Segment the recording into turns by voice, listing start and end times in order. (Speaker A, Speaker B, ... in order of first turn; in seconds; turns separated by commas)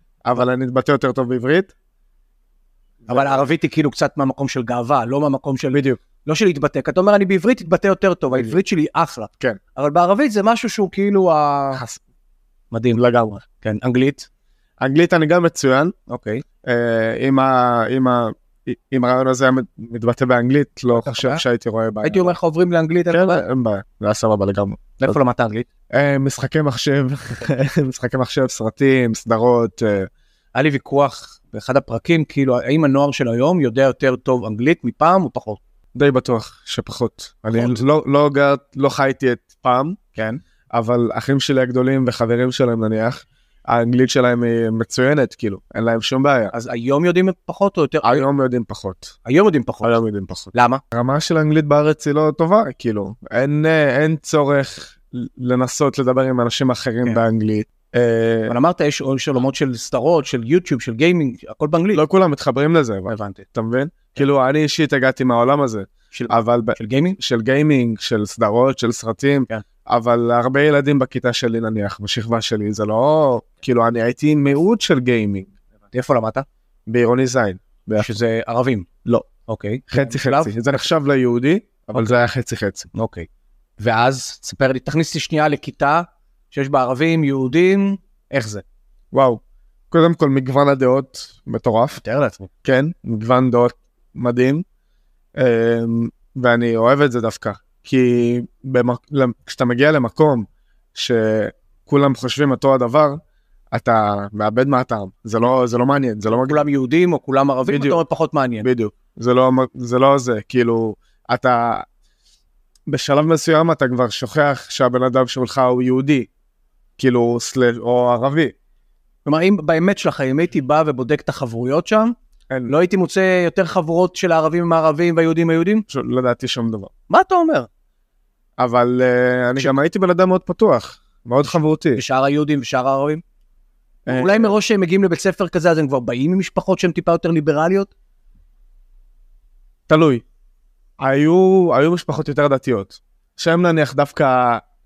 Speaker A: 0.2-1.7, Speaker A: 3.1-3.4, Speaker B: 3.1-11.8, Speaker A: 5.7-6.0, Speaker A: 11.7-12.0, Speaker B: 12.7-14.3, Speaker A: 12.9-13.4, Speaker A: 14.8-15.9, Speaker B: 16.1-16.4, Speaker A: 16.6-22.4, Speaker B: 20.9-21.4, Speaker B: 22.0-23.3, Speaker A: 23.1-25.1, Speaker B: 25.0-25.6, Speaker A: 25.9-30.1, Speaker B: 30.5-35.6, Speaker A: 35.9-40.0, Speaker B: 37.5-37.8, Speaker B: 40.1-40.4, Speaker A: 40.7-46.5, Speaker B: 46.5-48.2, Speaker A: 48.0-49.1, Speaker B: 49.2-50.0, Speaker A: 49.8-58.5, Speaker B: 50.5-50.8, Speaker B: 58.5-62.0, Speaker A: 61.9-75.5, Speaker B: 63.1-63.4, Speaker B: 66.1-67.2, Speaker B: 75.9-76.4, Speaker A: 76.9-78.2, Speaker B: 78.0-78.9, Speaker B: 79.5-80.9, Speaker A: 79.9-82.9, Speaker B: 82.9-83.3, Speaker B: 83.8-88.6, Speaker A: 89.1-92.0, Speaker B: 92.0-92.5, Speaker A: 92.6-94.6, Speaker A: 95.4-103.2, Speaker A: 103.7-106.6, Speaker B: 106.3-108.7, Speaker A: 107.7-108.0, Speaker A: 108.6-111.9, Speaker A: 112.9-116.3, Speaker A: 117.0-118.5, Speaker B: 119.2-122.1, Speaker B: 122.7-125.8, Speaker A: 125.9-126.9, Speaker B: 127.1-127.7, Speaker A: 128.6-132.0, Speaker B: 131.9-133.2, Speaker A: 134.1-134.5, Speaker B: 134.1-137.9, Speaker A: 139.9-140.2, Speaker A: 141.0-144.6